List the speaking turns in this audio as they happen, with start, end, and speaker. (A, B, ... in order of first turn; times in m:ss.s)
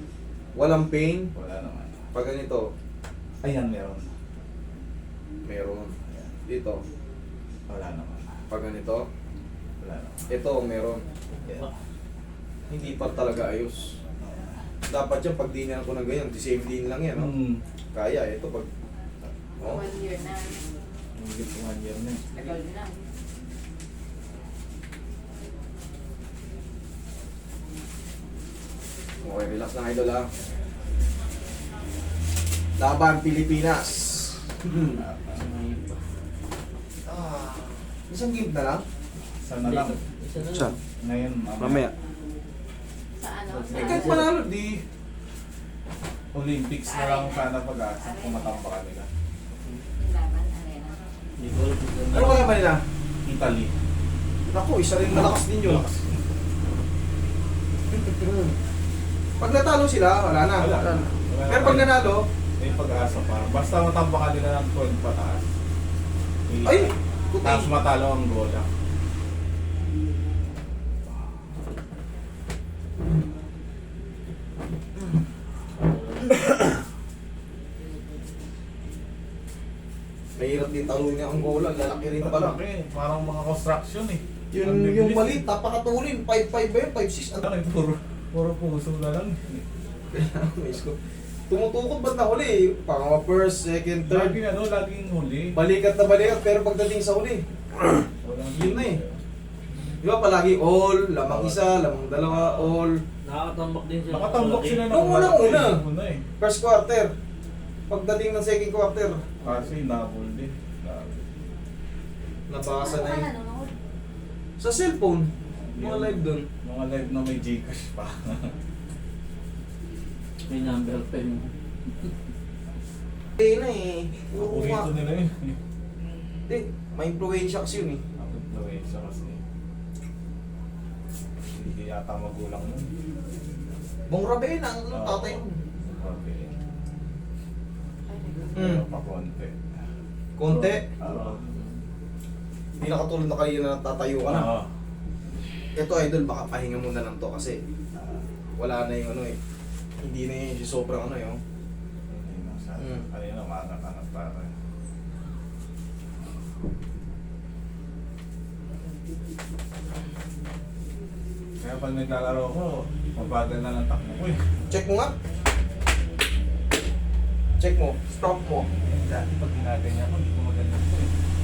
0:00.5-0:01.3 A
0:01.3-0:02.0 B
0:02.1-0:02.6 A
0:03.4-0:04.1 B
0:05.4-0:05.9 A
0:06.1-0:06.3 B
0:06.4-0:06.8 A
0:07.7-0:08.3 B
0:08.5-0:09.0 A
0:09.8-0:10.3 B
0:10.3-0:11.6 A
0:12.7-0:13.9 A
0:14.2-0:14.6 B
0:14.9-0:17.3 A
0:17.1-0:17.6 B
0:17.9-0:18.7 A
0:19.6-0:20.6 C
0:21.2-0:22.6 B
0:22.3-0:23.0 C
0:29.2-0:30.3 A
0:32.8-0:35.0 A
0:34.9-0:35.4 B
0:35.3-0:36.0 D
0:37.0-0:38.8 A
0:39.4-0:40.0 B
0:39.6-0:40.8 D
0:40.4-0:40.8 A
0:41.0-0:41.8 B
0:41.6-0:41.9 A
0:43.2-0:44.3 C
0:43.7-0:44.3 B
0:43.7-0:44.3 D
0:43.7-0:44.8 A
0:46.3-0:49.1 B
0:46.8-0:48.6 C
0:50.0-0:51.0 C
0:51.4-0:52.6 D
0:52.1-0:52.8 A
0:53.2-0:53.8 B
0:54.5-0:55.9 A
0:55.1-0:56.2 B
0:57.9-0:58.6 A
0:59.4-1:02.2 A
1:00.6-1:02.0 B
1:02.6-1:05.4 B
1:06.5-1:08.7 B
1:06.6-1:07.7 A
1:15.9-1:16.2 D
1:20.4-1:22.6 A
1:22.1-1:25.4 B
1:24.5-1:27.4 A
1:27.4-1:29.6 B
1:30.1-1:31.0 A
1:31.5-1:34.4 A
1:34.1-1:35.6 B
1:35.6-1:37.4 A
1:38.2-1:39.2 B
1:38.5-1:39.0 A
1:40.0-1:43.0 A
1:41.2-1:42.8 B
1:43.2-1:44.9 D
1:44.1-1:46.2 B
1:44.9-1:45.8 A
1:46.4-1:47.1 A
1:47.9-1:49.2 A
1:49.4-1:51.3 B
1:52.5-1:53.3 A
1:52.8-1:53.7 C
1:54.6-1:56.4 A
1:55.5-1:58.5 B
2:00.5-2:01.5 D
2:03.4-2:04.9 A
2:04.4-2:05.6 B
2:06.5-2:08.0 A
2:08.2-2:09.4 B
2:11.5-2:12.9 B
2:14.1-2:15.6 A
2:14.9-2:16.5 B
2:18.1-2:18.8 C
2:18.5-2:19.9 B
2:18.5-2:18.8 A
2:20.4-2:20.9 A
2:20.5-2:21.4 D
2:21.0-2:21.6 B
2:22.8-2:24.5 A
2:24.3-2:24.7 B
2:25.8-2:27.6 A
2:27.9-2:28.2 B
2:28.6-2:29.4 A
2:30.0-2:31.4 A
2:32.1-2:34.5 B
2:41.6-2:44.4 B
2:44.7-2:45.1 A
2:47.6-2:48.7 A
2:48.7-2:51.1 B